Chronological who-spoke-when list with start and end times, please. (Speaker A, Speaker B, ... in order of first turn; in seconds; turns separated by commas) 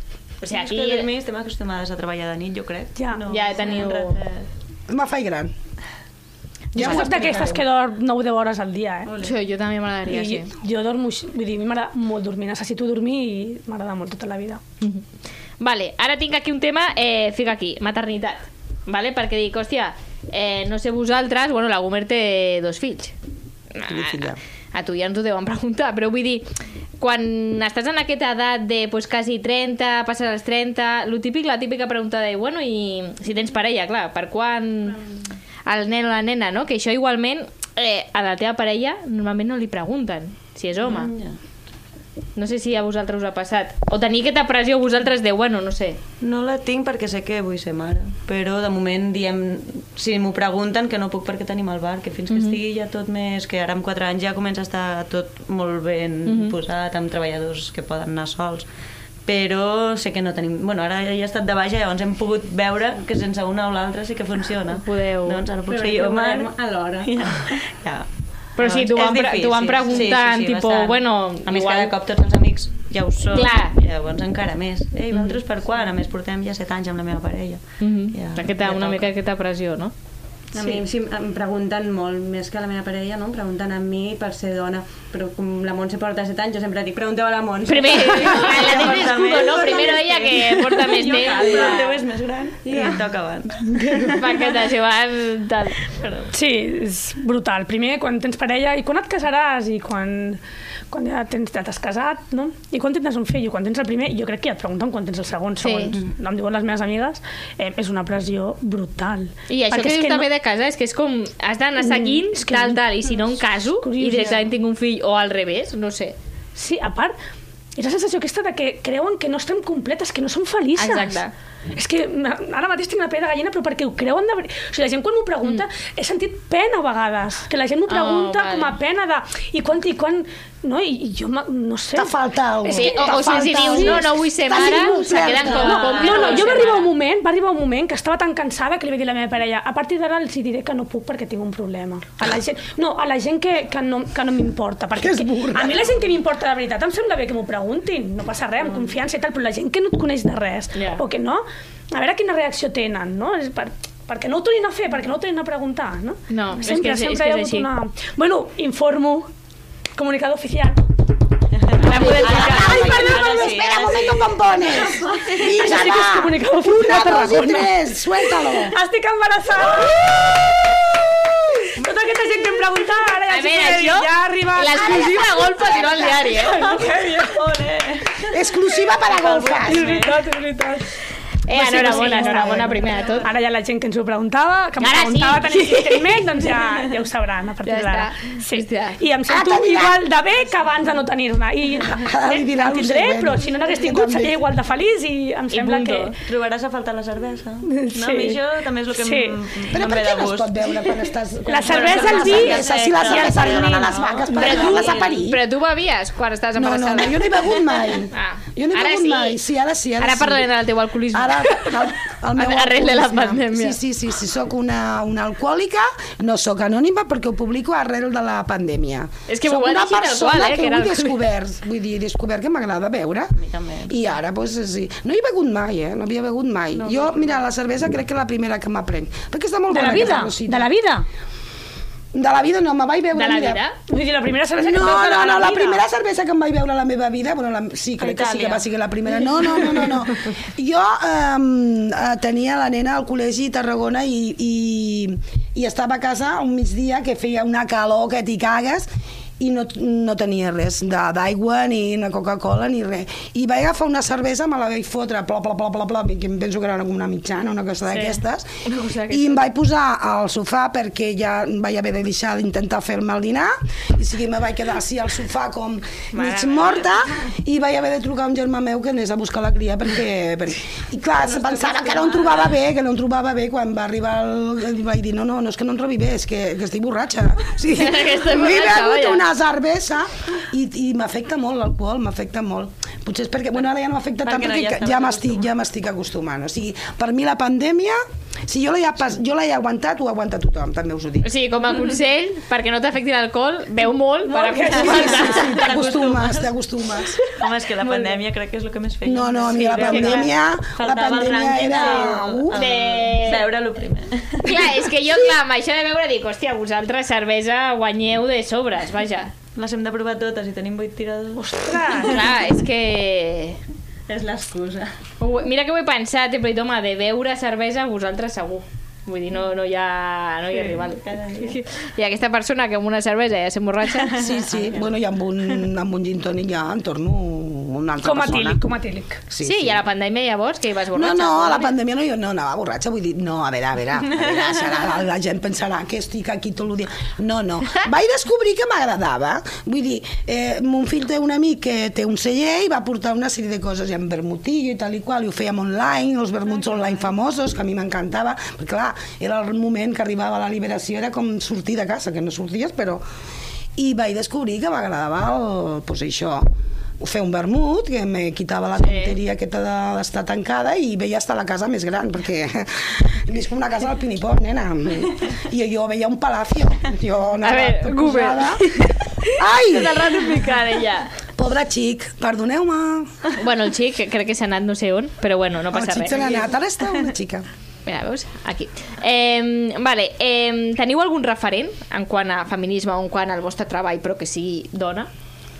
Speaker A: 0.4-1.1, Speaker B: 0.5-4.5, Speaker C: 3.0-3.2, Speaker A: 3.3-4.2, Speaker D: 4.9-5.5, Speaker D: 6.7-7.7, Speaker C: 6.8-9.2, Speaker B: 6.8-7.4, Speaker A: 6.8-7.4, Speaker A: 9.2-10.5, Speaker C: 10.1-14.6, Speaker A: 15.6-23.1, Speaker A: 23.8-26.5, Speaker D: 23.9-24.4, Speaker A: 27.0-35.0, Speaker A: 35.7-41.1, Speaker B: 40.8-41.4, Speaker A: 42.4-46.0, Speaker B: 46.2-58.7, Speaker A: 52.3-52.6, Speaker A: 56.3-56.5, Speaker B: 59.3-66.5, Speaker A: 64.8-65.4, Speaker E: 65.7-67.2, Speaker B: 67.0-68.1, Speaker A: 68.6-71.9, Speaker B: 68.6-79.1, Speaker A: 73.3-73.8, Speaker A: 77.8-79.9, Speaker E: 80.5-93.1, Speaker A: 87.7-92.0, Speaker B: 87.9-94.2, Speaker C: 93.8-94.2, Speaker A: 94.1-95.8, Speaker B: 96.0-96.3, Speaker C: 96.3-110.3, Speaker A: 105.6-106.0, Speaker A: 109.5-116.2, Speaker C: 111.8-112.8, Speaker C: 113.8-114.5, Speaker C: 116.6-117.1, Speaker C: 117.8-121.2, Speaker A: 120.8-121.3, Speaker C: 121.8-132.1, Speaker A: 127.9-128.7, Speaker D: 131.9-136.3, Speaker C: 132.6-159.3, Speaker A: 132.7-136.9, Speaker B: 135.6-136.8, Speaker D: 145.0-145.9, Speaker A: 150.8-151.0, Speaker A: 156.3-157.7, Speaker C: 159.9-160.9, Speaker B: 161.7-164.8, Speaker C: 161.8-163.8, Speaker A: 161.9-162.6, Speaker D: 161.9-168.8, Speaker C: 165.3-170.1, Speaker C: 171.8-177.4, Speaker A: 173.3-176.8, Speaker B: 176.3-178.4, Speaker D: 178.3-180.0, Speaker B: 178.9-180.3, Speaker C: 179.6-180.9, Speaker A: 181.5-183.3, Speaker C: 181.5-196.2, Speaker D: 181.6-182.8, Speaker A: 184.8-186.5, Speaker A: 187.6-189.0, Speaker D: 189.3-190.1, Speaker D: 191.8-194.4, Speaker A: 195.5-196.2, Speaker B: 196.2-200.9, Speaker C: 197.8-198.4, Speaker C: 198.9-199.4, Speaker D: 199.7-205.4, Speaker C: 201.5-204.1, Speaker B: 201.6-205.2, Speaker A: 204.3-207.5, Speaker D: 206.6-210.5, Speaker A: 208.1-209.4, Speaker A: 210.0-213.8, Speaker D: 211.1-223.3, Speaker A: 219.3-221.2, Speaker B: 223.4-224.2, Speaker D: 223.9-230.7, Speaker C: 229.7-231.1, Speaker D: 232.1-233.6, Speaker A: 233.1-233.8, Speaker C: 233.9-235.8, Speaker D: 234.6-258.5, Speaker B: 238.0-238.7, Speaker B: 239.6-239.9, Speaker A: 257.9-259.4, Speaker D: 259.1-291.3, Speaker A: 266.1-266.6, Speaker A: 277.7-279.3, Speaker B: 284.2-285.5, Speaker A: 291.2-295.5, Speaker C: 294.3-295.4, Speaker D: 294.8-297.2, Speaker B: 295.1-296.6, Speaker B: 297.3-304.6, Speaker C: 297.8-298.2, Speaker D: 299.1-302.6, Speaker A: 299.8-300.3, Speaker A: 302.5-303.4, Speaker A: 304.4-309.3, Speaker B: 309.6-312.1, Speaker C: 311.4-312.3, Speaker A: 312.0-313.6, Speaker E: 314.1-314.9, Speaker A: 315.2-324.1, Speaker B: 320.5-321.5, Speaker B: 324.1-324.9, Speaker D: 324.2-328.6, Speaker C: 328.0-329.2, Speaker D: 329.3-329.8, Speaker A: 329.4-331.7, Speaker D: 330.9-353.0, Speaker D: 353.8-356.5, Speaker D: 357.0-368.7, Speaker A: 358.8-359.1, Speaker A: 367.4-371.1, Speaker D: 369.3-370.4, Speaker D: 371.4-373.1, Speaker A: 373.4-376.5, Speaker D: 375.7-377.4, Speaker A: 377.9-385.1